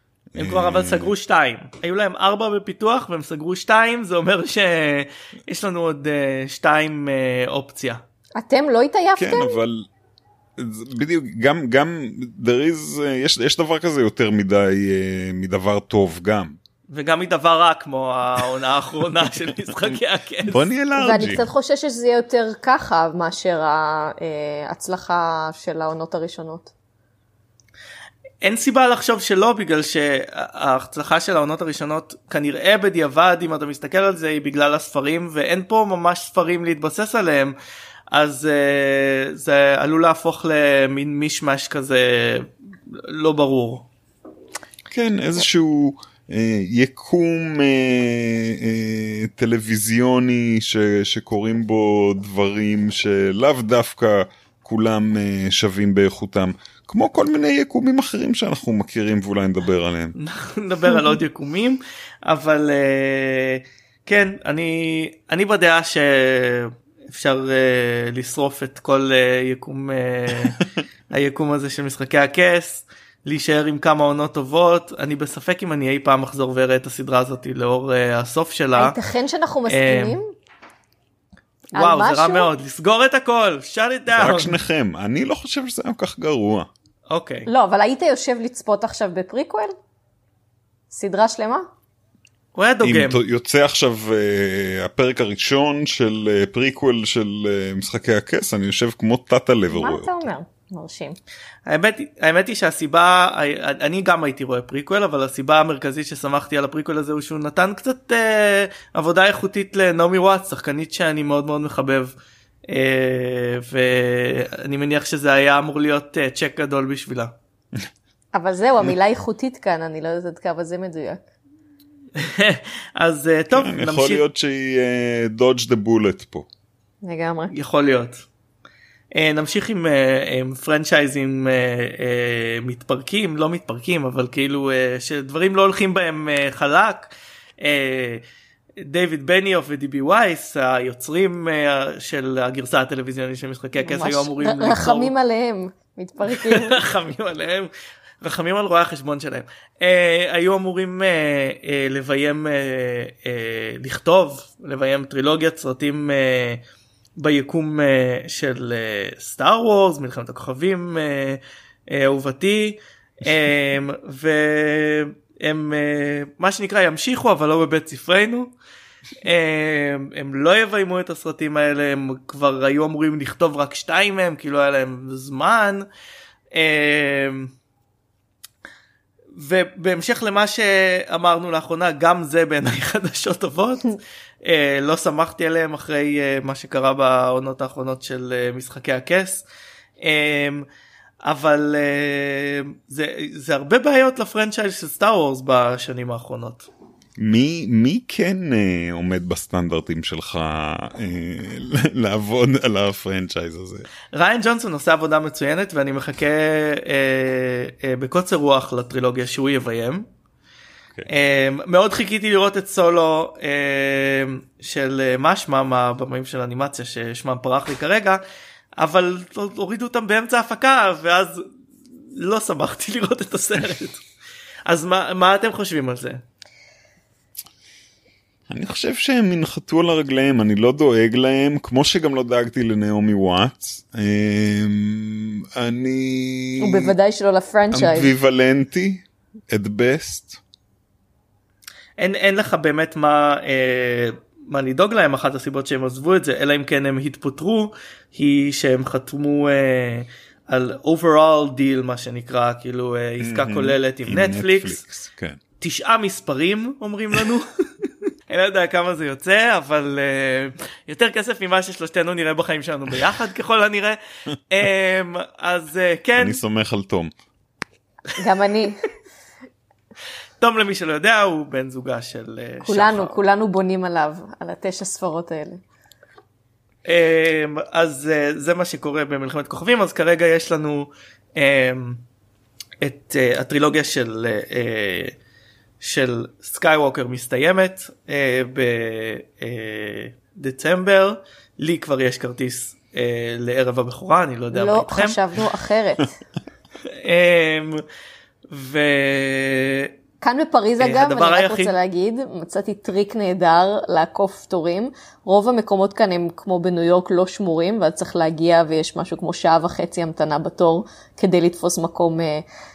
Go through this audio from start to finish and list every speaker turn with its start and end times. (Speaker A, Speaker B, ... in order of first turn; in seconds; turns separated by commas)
Speaker A: 0.3-1.1, Speaker B: 0.4-8.0, Speaker C: 8.4-9.6, Speaker A: 9.2-9.9, Speaker A: 10.6-16.6, Speaker B: 16.9-20.7, Speaker A: 20.5-21.5, Speaker C: 21.0-26.7, Speaker B: 28.4-37.5, Speaker B: 38.1-43.9, Speaker A: 44.9-60.1, Speaker B: 60.1-79.0, Speaker C: 78.8-80.3, Speaker B: 79.7-80.2, Speaker B: 81.7-84.6, Speaker C: 81.7-82.5, Speaker A: 84.1-86.7, Speaker B: 87.1-87.5, Speaker C: 87.5-89.8, Speaker C: 90.9-91.7, Speaker B: 92.5-93.2, Speaker A: 92.8-100.2, Speaker C: 99.7-101.2, Speaker B: 101.7-112.2, Speaker B: 112.7-117.3, Speaker C: 118.3-121.2, Speaker B: 122.2-124.2, Speaker A: 123.5-126.5, Speaker C: 127.0-127.5, Speaker B: 127.5-128.2, Speaker B: 129.1-137.1, Speaker B: 137.6-138.2, Speaker B: 138.8-145.1, Speaker C: 143.8-146.8, Speaker B: 146.3-147.7, Speaker B: 148.2-156.6, Speaker B: 157.2-168.5, Speaker B: 169.2-175.9, Speaker B: 176.5-177.5, Speaker B: 179.4-189.4, Speaker B: 190.0-190.7, Speaker B: 191.2-196.7, Speaker A: 197.2-203.9, Speaker B: 204.1-210.1, Speaker B: 211.1-218.2, Speaker B: 218.8-221.5, Speaker B: 222.2-224.0, Speaker B: 224.7-226.2, Speaker A: 228.5-236.9, Speaker C: 236.6-238.1, Speaker A: 237.7-240.4, Speaker B: 242.0-254.8, Speaker A: 253.2-255.4, Speaker B: 255.6-257.6, Speaker B: 258.3-266.4, Speaker A: 266.2-267.1, Speaker C: 268.2-268.9, Speaker B: 270.4-273.2, Speaker C: 272.7-275.6, Speaker B: 276.9-282.0, Speaker B: 282.8-285.1, Speaker B: 285.8-295.2, Speaker C: 294.5-296.2, Speaker B: 296.9-297.8, Speaker B: 298.5-299.9, Speaker C: 300.2-312.4, Speaker B: 300.8-301.8